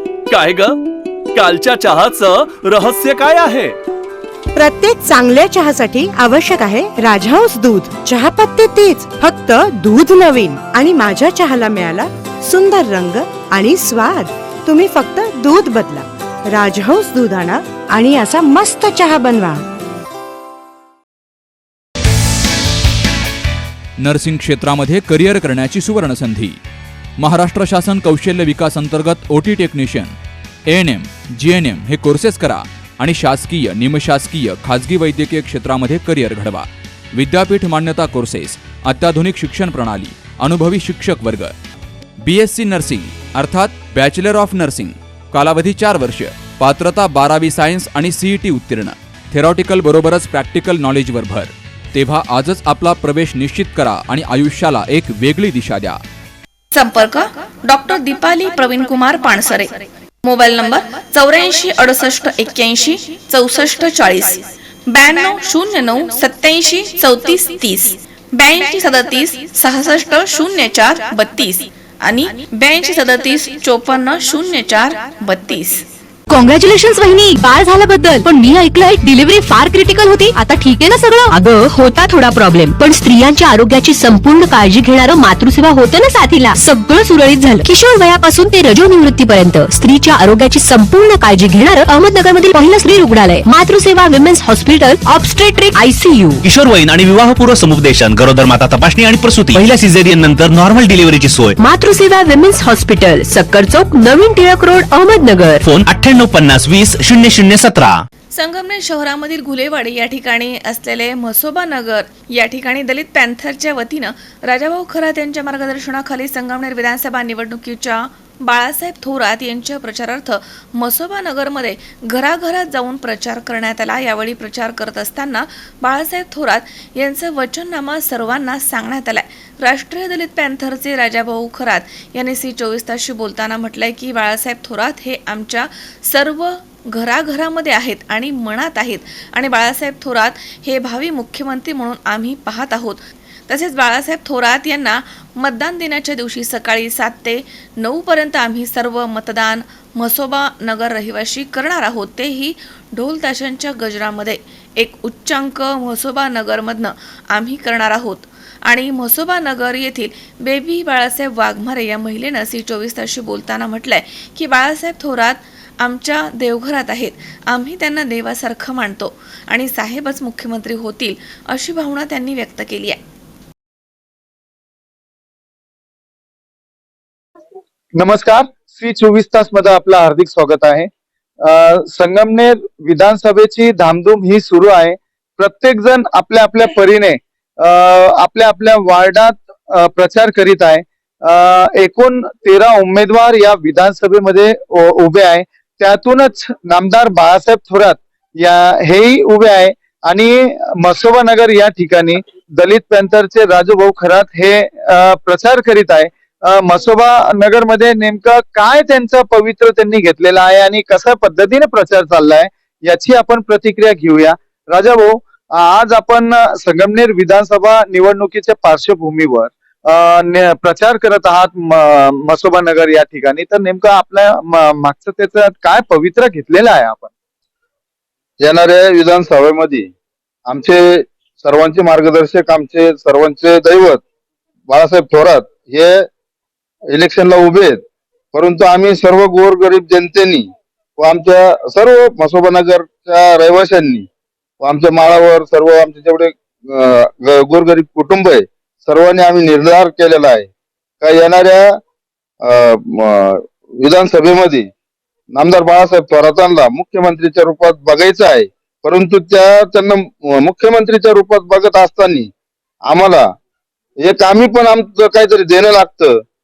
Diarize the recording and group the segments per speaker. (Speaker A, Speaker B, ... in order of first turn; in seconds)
Speaker A: 0.3-0.8, 1.3-3.8
Speaker B: 4.5-19.6
Speaker C: 24.0-26.6, 27.2-30.1, 30.7-41.5, 42.2-56.0
Speaker D: 56.7-75.9, 108.3-173.0
Speaker E: 76.3-96.5, 101.6-105.7
Speaker F: 96.5-101.5, 105.7-108.0
Speaker G: 178.0-180.9, 181.4-227.1
Speaker H: 228.4-229.9, 230.5-234.0, 234.7-236.0, 236.9-237.8, 238.3-244.1, 244.6-250.5, 251.0-251.8, 252.4-254.7, 255.3-262.3, 262.9-263.2, 264.0-266.1